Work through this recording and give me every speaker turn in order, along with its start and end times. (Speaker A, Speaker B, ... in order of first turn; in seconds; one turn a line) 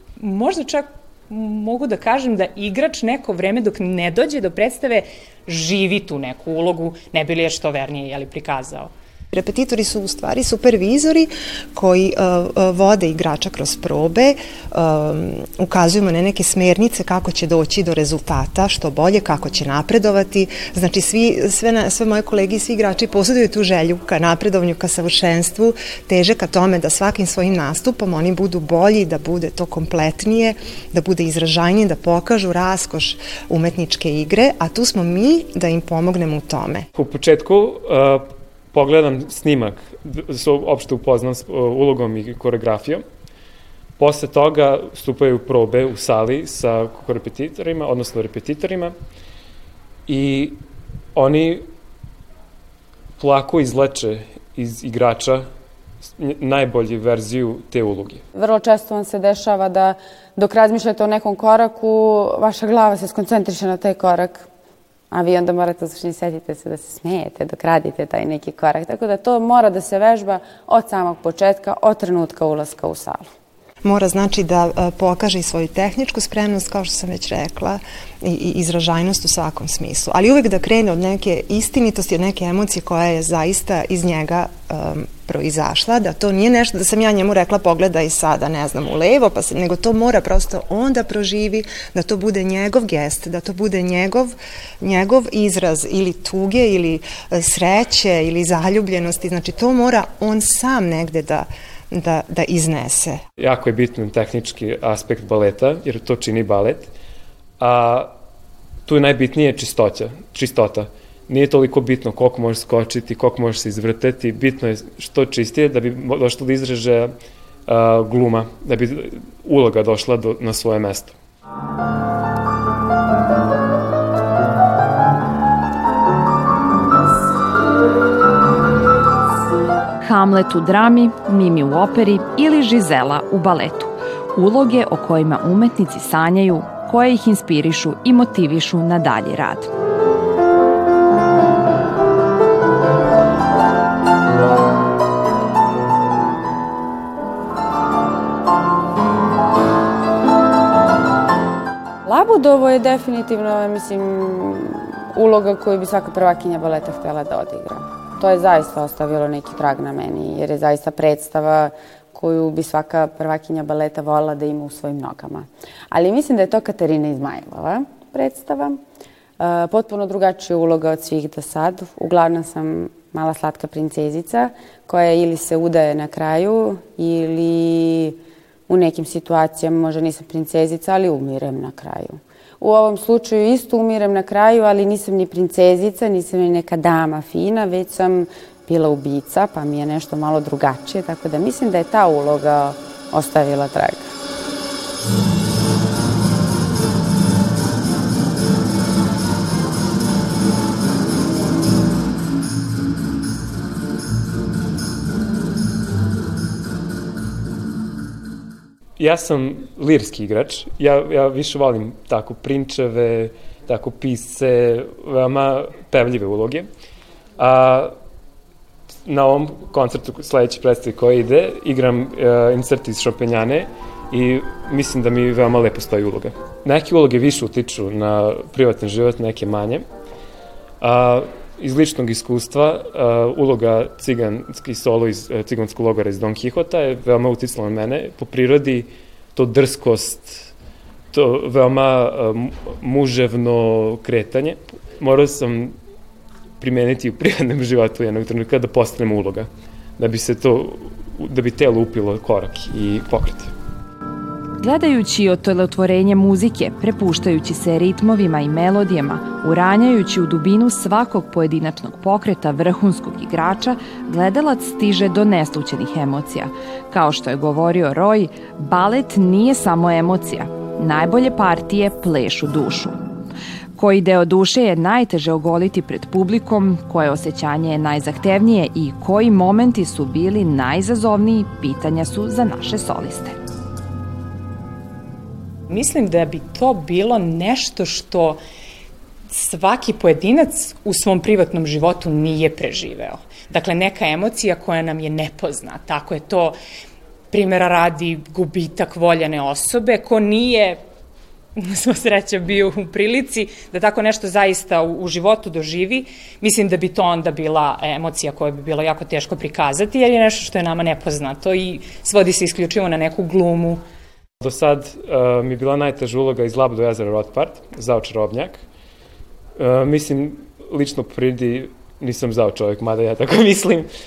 Speaker A: 0.2-8.9
Speaker B: 9.3-36.9
Speaker C: 37.0-43.0
Speaker C: 44.0-48.9
Speaker C: 50.1-50.6
Speaker C: 51.1-51.7
Speaker C: 53.2-55.5
Speaker C: 56.2-58.2
Speaker D: 58.4-64.5
Speaker D: 65.1-73.3
Speaker B: 73.8-103.2
Speaker C: 103.4-106.9
Speaker C: 107.6-108.1
Speaker C: 108.9-117.1
Speaker C: 117.7-121.2
Speaker E: 130.0-139.7
Speaker D: 152.1-168.8
Speaker D: 169.4-194.1
Speaker C: 209.0-216.7
Speaker C: 217.4-217.9
Speaker C: 219.1-229.8
Speaker C: 230.8-240.5
Speaker C: 241.1-245.8
Speaker C: 246.6-253.5
Speaker E: 254.6-273.0
Speaker E: 273.8-283.4
Speaker A: 285.7-288.4
Speaker A: 289.3-296.6
Speaker A: 297.3-300.8
Speaker A: 301.6-313.8
Speaker C: 314.4-318.6
Speaker C: 319.6-323.9